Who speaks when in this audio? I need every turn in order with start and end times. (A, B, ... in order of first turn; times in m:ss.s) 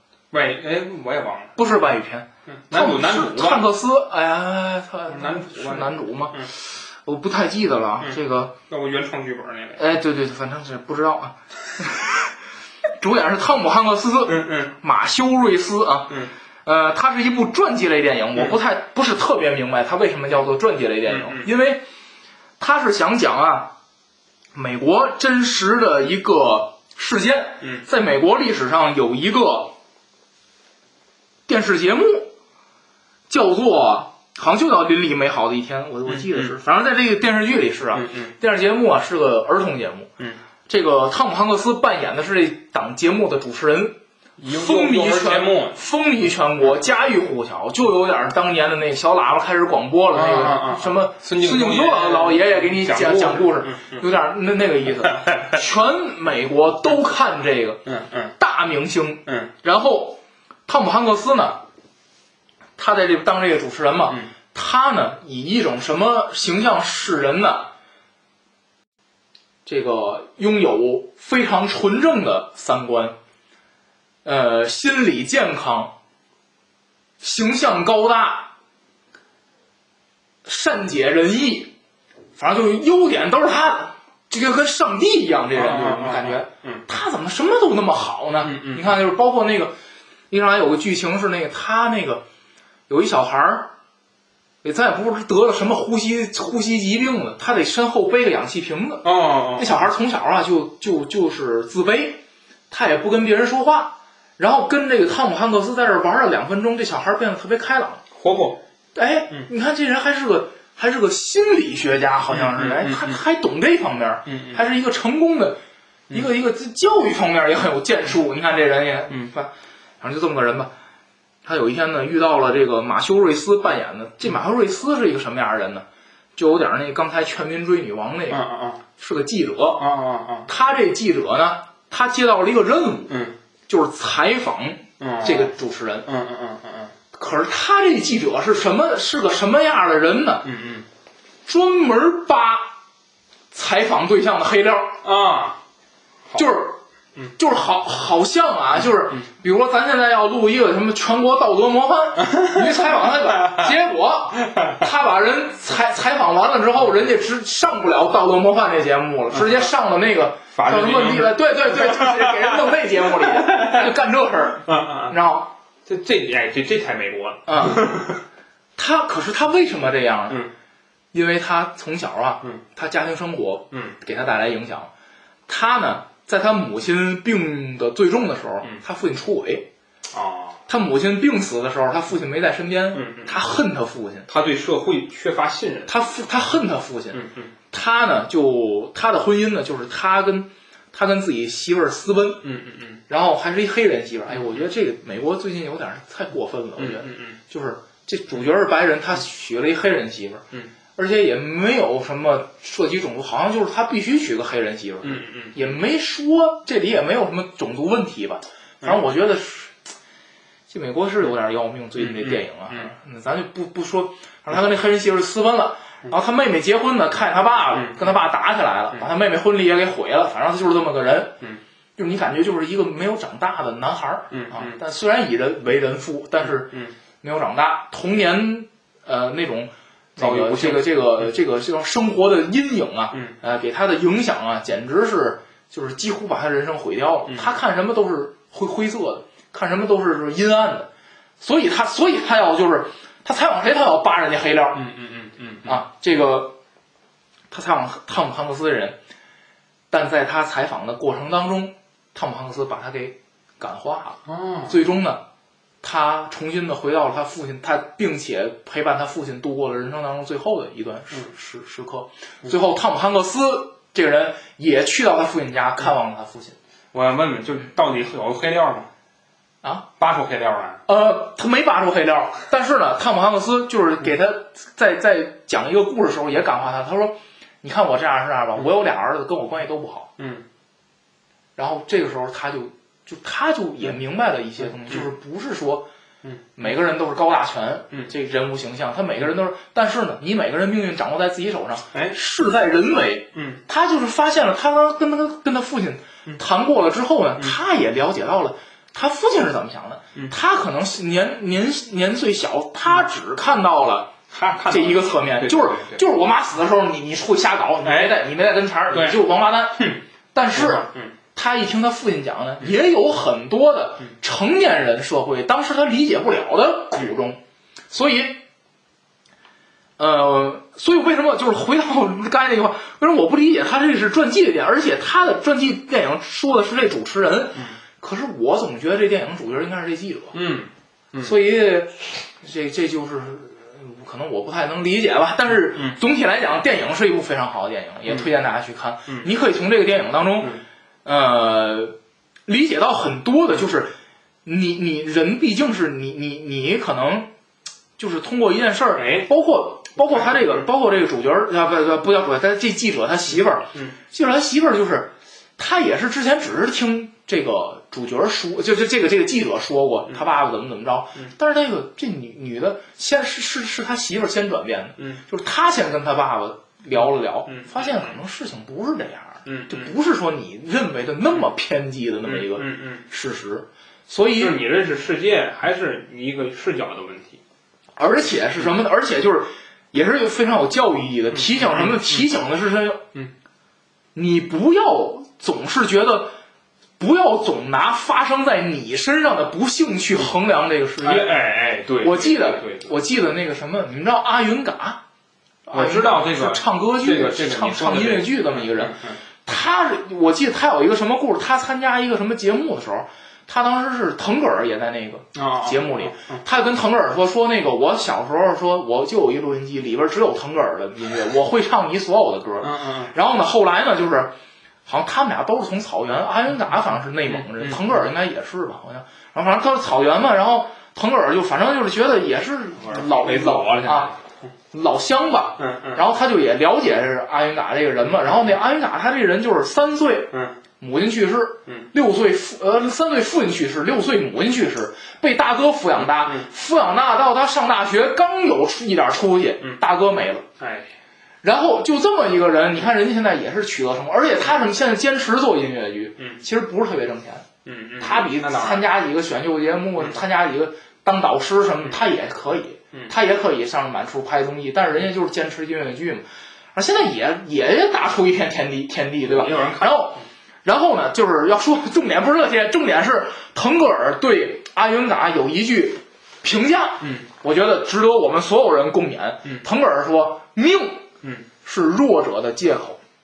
0:00.3-0:01.6 A
0:01.6-0:08.5 B
0:02.5-0:03.6 A
0:05.1-0:06.5 A
0:08.0-0:09.8 A
0:09.8-0:12.3 B
0:13.0-0:21.8 B
0:14.2-0:14.7 A
0:21.0-0:21.5 A
0:22.6-0:23.7 B
0:24.5-0:29.8 B
0:31.5-0:32.3 B
0:33.3-0:40.1 B
0:36.0-0:36.6 A
0:37.9-0:38.3 A
0:40.7-0:57.8 B
0:44.4-0:45.8 A
0:50.1-0:54.0 A
0:55.1-0:55.6 A
0:57.8-0:58.4 A
0:58.4-1:01.6 B
1:02.8-1:07.7 B
1:09.6-1:13.2 B
1:14.2-1:15.9 B
1:17.2-1:18.5 B
1:20.4-1:21.7 B
1:22.4-1:29.7 B
1:25.5-1:26.8 A
1:28.4-1:29.0 A
1:30.3-1:32.2 B
1:32.9-1:33.7 B
1:34.6-1:48.0 B
1:39.0-1:39.8 A
1:48.1-1:48.6 A
1:48.9-1:55.6 B
1:52.3-1:53.2 A
1:54.3-1:54.6 A
1:56.1-2:00.7 B
2:01.4-2:05.8 B
2:06.4-2:08.4 B
2:08.3-2:08.8 A
2:09.0-2:09.9 B
2:09.8-2:10.5 A
2:10.5-2:13.1 B
2:13.1-2:13.3 A
2:13.7-2:16.1 B
2:15.0-2:15.5 A
2:16.0-2:16.9 A
2:17.1-2:20.5 B
2:20.4-2:20.8 A
2:21.4-2:22.7 B
2:23.5-2:25.0 B
2:25.0-2:25.6 A
2:26.3-2:26.8 B
2:27.4-2:45.5 B
2:32.2-2:32.7 A
2:33.3-2:33.7 A
2:39.3-2:39.6 A
2:40.5-2:43.9 A
2:44.6-2:45.2 A
2:45.8-2:48.2 A
2:47.5-2:48.0 B
2:48.8-2:50.4 B
2:51.1-2:54.9 B
2:55.5-2:59.7 B
3:00.1-3:00.6 A
3:00.7-3:04.3 B
3:02.9-3:03.4 A
3:04.3-3:06.0 A
3:05.9-3:12.4 B
3:07.1-3:07.5 A
3:12.4-3:13.0 A
3:13.1-3:20.4 B
3:14.3-3:14.6 A
3:16.8-3:17.4 A
3:21.0-3:29.8 B
3:25.0-3:25.6 A
3:30.7-3:41.4 B
3:32.0-3:32.9 A
3:37.7-3:38.2 A
3:42.0-4:00.9 B
3:44.3-3:44.8 A
3:46.4-3:46.9 A
3:50.2-3:51.3 A
3:57.3-3:57.5 A
4:01.4-4:04.9 B
4:04.7-4:05.8 A
4:05.6-4:06.6 B
4:07.5-4:09.0 B
4:09.9-4:15.2 B
4:14.3-4:14.8 A
4:15.8-4:26.6 B
4:26.9-4:28.9 A
4:30.0-4:30.8 A
4:30.9-4:40.1 B
4:40.2-4:40.4 A
4:41.6-4:45.9 B
4:44.6-4:45.1 A
4:46.6-5:04.1 B
4:53.3-4:53.6 A
5:04.3-5:06.0 A
5:04.6-5:18.4 B
5:07.8-5:08.2 A
5:08.9-5:09.2 A
5:09.8-5:10.0 A
5:10.5-5:11.1 A
5:20.0-5:30.4 B
5:30.3-5:31.3 A
5:31.2-5:41.9 B
5:35.6-5:36.0 A
5:38.1-5:38.3 A
5:42.4-5:43.9 B
5:44.4-5:47.3 B
5:48.0-6:14.6 B
5:49.0-5:49.3 A
5:50.0-5:50.6 A
6:07.5-6:08.2 A
6:09.4-6:09.9 A
6:12.2-6:13.0 A
6:14.4-6:17.4 A
6:18.0-6:23.0 B
6:21.3-6:22.3 A
6:24.1-6:26.4 B
6:27.0-6:31.4 B
6:31.0-6:32.9 A
6:32.0-6:35.0 B
6:35.7-6:54.3 B
6:35.7-6:39.2 A
6:45.3-6:46.4 A
6:52.6-6:53.1 A
6:54.8-7:04.1 B
6:57.3-6:57.8 A
7:02.8-7:04.2 A
7:04.7-7:20.4 B
7:05.6-7:06.0 A
7:16.0-7:16.5 A
7:20.6-7:20.9 A
7:21.4-7:27.5 B
7:27.6-7:28.8 A
7:28.0-7:51.0 B
7:39.2-7:40.2 A
7:47.0-7:47.3 A
7:51.6-7:53.0 B